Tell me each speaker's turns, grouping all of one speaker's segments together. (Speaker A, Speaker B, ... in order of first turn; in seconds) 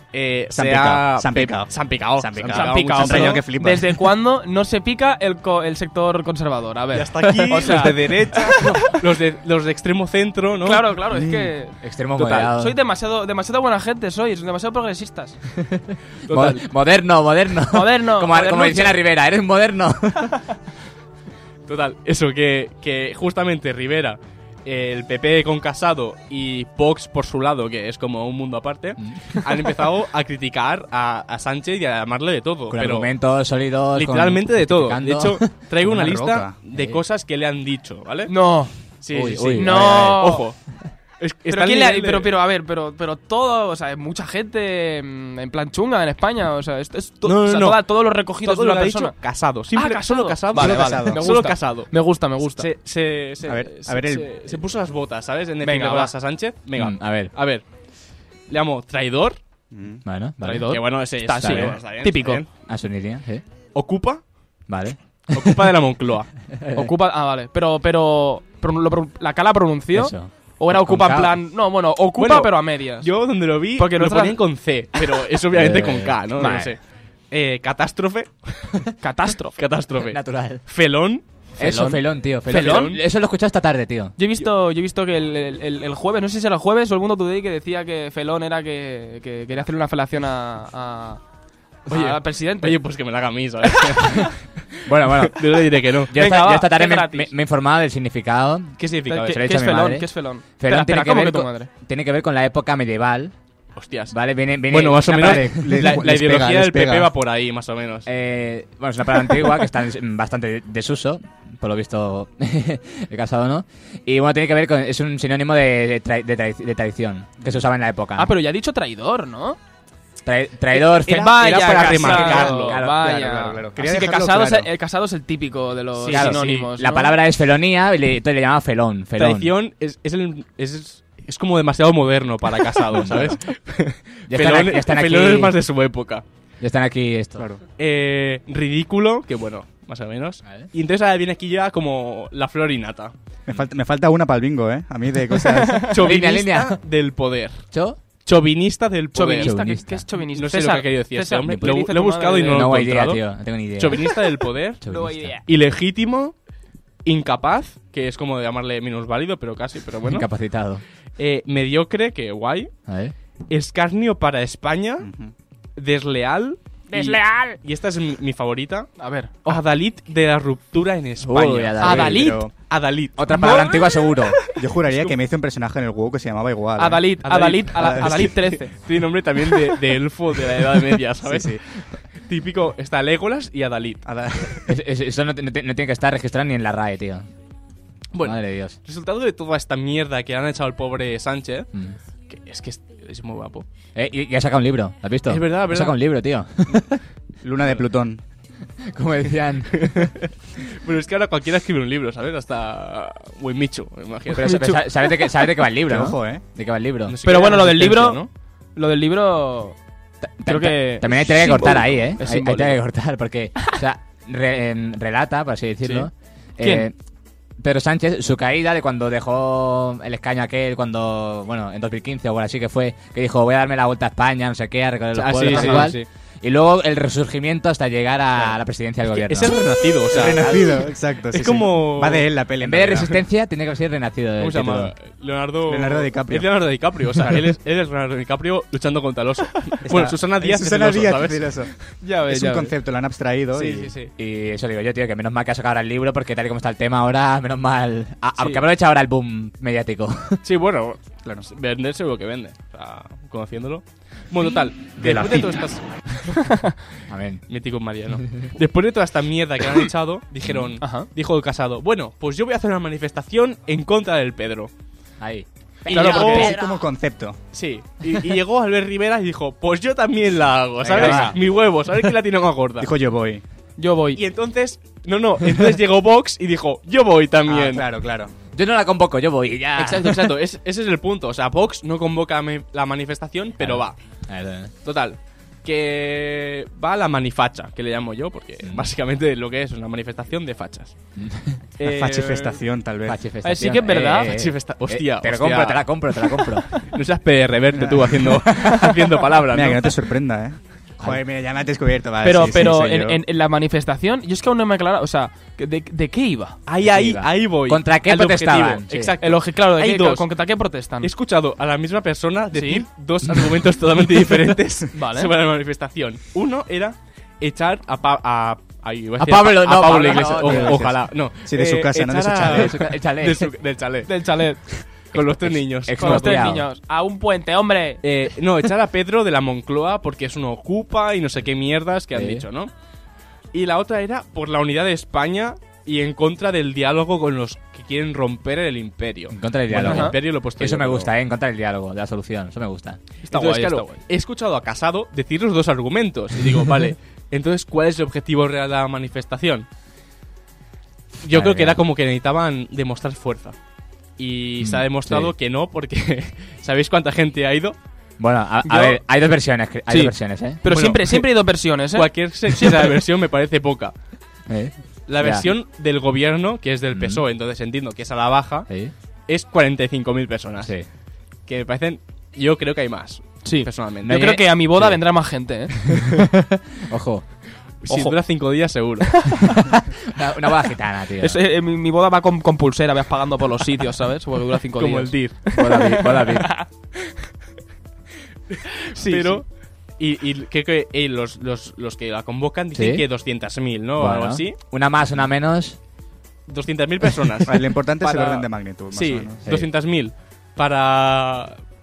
Speaker A: 0.1-3.5, 6.9-11.0, 12.2-12.5, 21.7-33.1, 33.9-38.4, 38.9-40.6, 41.2-42.3, 47.2-57.7, 58.5-59.4, 60.7-62.5, 63.8-64.2, 65.3-66.3, 72.2-76.8, 77.3-78.8, 79.6-81.2, 82.5-83.0, 91.9-96.2, 98.8-99.5, 103.8-108.1, 121.1-122.8, 126.0-126.7, 129.2-136.2, 137.8-143.1, 145.9-147.7, 148.2-149.6, 150.1-153.2, 153.8-154.8, 155.5-156.3, 157.1-160.3, 161.2-162.7, 163.5-165.1, 165.8-172.1, 172.7-175.2, 177.2-184.6, 188.1-191.7, 192.3-193.7, 195.3-196.1, 199.7-204.8, 207.1-208.3, 212.2-212.6, 215.8-216.1, 225.1-226.1, 229.1-232.3, 234.4-241.7, 243.5-244.1, 248.4-248.7, 250.4-256.5, 257.5-264.7, 265.9-266.6, 267.5-272.9, 274.1-277.9, 279.8-284.0, 284.8-291.0, 291.8-292.6, 294.2-299.9, 306.7-310.3, 311.0-324.1, 325.1-326.5, 328.0-332.7, 333.5-341.1, 343.2-349.7, 351.2-353.6, 354.2-357.8, 360.7-363.9, 365.1-368.7, 369.3-370.7, 371.5-374.2, 377.8-379.4, 384.8-385.4, 388.5-389.4, 390.0-394.6, 396.5-401.6
Speaker B: 0.5-4.0, 7.6-8.6, 11.1-11.5, 35.8-36.6, 50.5-51.5, 53.5-54.6, 59.7-60.0, 105.1-107.1, 121.4-124.7, 137.4-137.6, 143.5-145.9, 165.0-165.3, 171.9-172.5, 174.6-177.2, 177.8-178.3, 181.2-181.6, 184.1-184.7, 197.4-198.2, 205.9-206.4, 230.1-233.2, 235.7-237.3, 239.8-241.7, 242.3-243.9, 255.0-255.4, 265.9-267.4, 270.9-271.3, 272.8-273.4, 277.5-278.3, 291.8-293.2, 297.8-298.9, 299.5-303.2, 320.1-322.7, 397.5-399.4
Speaker C: 2.4-9.0, 10.6-15.4, 17.7-19.0, 38.3-38.7, 39.6-40.5, 41.5-49.2, 49.7-52.7, 55.6-56.1, 60.4-62.4, 66.7-73.1, 73.8-74.4, 76.4-76.7, 79.0-79.6, 81.6-83.0, 84.2-91.2, 91.9-92.8, 93.7-94.3, 96.1-97.3, 99.1-101.7, 118.2-119.6, 120.7-127.2, 145.6-145.9, 149.1-152.7, 154.9-155.4, 166.9-167.6, 169.0-169.6, 171.8-172.5, 173.3-174.2, 176.8-178.7, 207.2-208.2, 208.8-209.8, 210.5-212.7, 216.6-216.9, 225.5-225.9, 242.0-242.8, 256.3-256.7, 260.8-261.1, 265.9-266.6, 271.0-271.3, 273.8-274.2, 293.4-294.3, 302.2-306.6, 309.2-311.1, 312.5-312.9, 314.9-315.3, 324.1-324.7, 326.0-328.0, 339.8-340.1, 343.3-344.0, 358.6-359.0, 359.9-362.9, 373.4-376.1, 377.9-378.2, 381.2-386.7, 388.9-389.4
Speaker D: 11.8-12.8, 15.6-20.4, 29.0-29.4, 32.7-35.5, 36.7-37.0, 39.1-40.2, 56.8-57.3, 60.0-60.8, 61.4-61.8, 62.7-63.4, 64.7-65.7, 66.5-66.9, 69.9-71.4, 75.5-76.7, 80.0-80.6, 81.6-84.2, 94.8-95.5, 96.1-103.3, 104.1-106.0, 108.1-118.3, 120.2-123.2, 126.1-129.5, 132.9-133.4, 134.3-135.6, 136.6-137.4, 146.0-146.8, 147.7-148.0, 149.4-150.1, 151.5-151.8, 152.4-154.2, 154.8-155.4, 160.1-160.8, 162.9-163.1, 171.2-172.2, 173.2-174.4, 184.7-187.3, 188.2-188.8, 193.9-197.0, 198.8-200.1, 204.3-207.2, 210.2-216.9, 217.6-229.6, 232.6-234.9, 244.2-250.4, 257.1-257.4, 260.4-260.8, 265.2-266.9, 270.9-271.4, 278.5-280.4, 283.6-284.7, 288.6-288.9, 291.1-291.6, 293.1-296.7, 306.8-309.2, 319.2-320.9, 322.5-323.5, 325.1-326.7, 332.1-332.5, 339.3-343.0, 351.2-351.8, 354.6-355.3, 358.2-360.6, 364.5-365.5, 366.9-367.2, 370.6-370.9, 374.0-377.2, 379.6-381.4, 385.5-386.6, 392.7-393.1, 394.0-395.8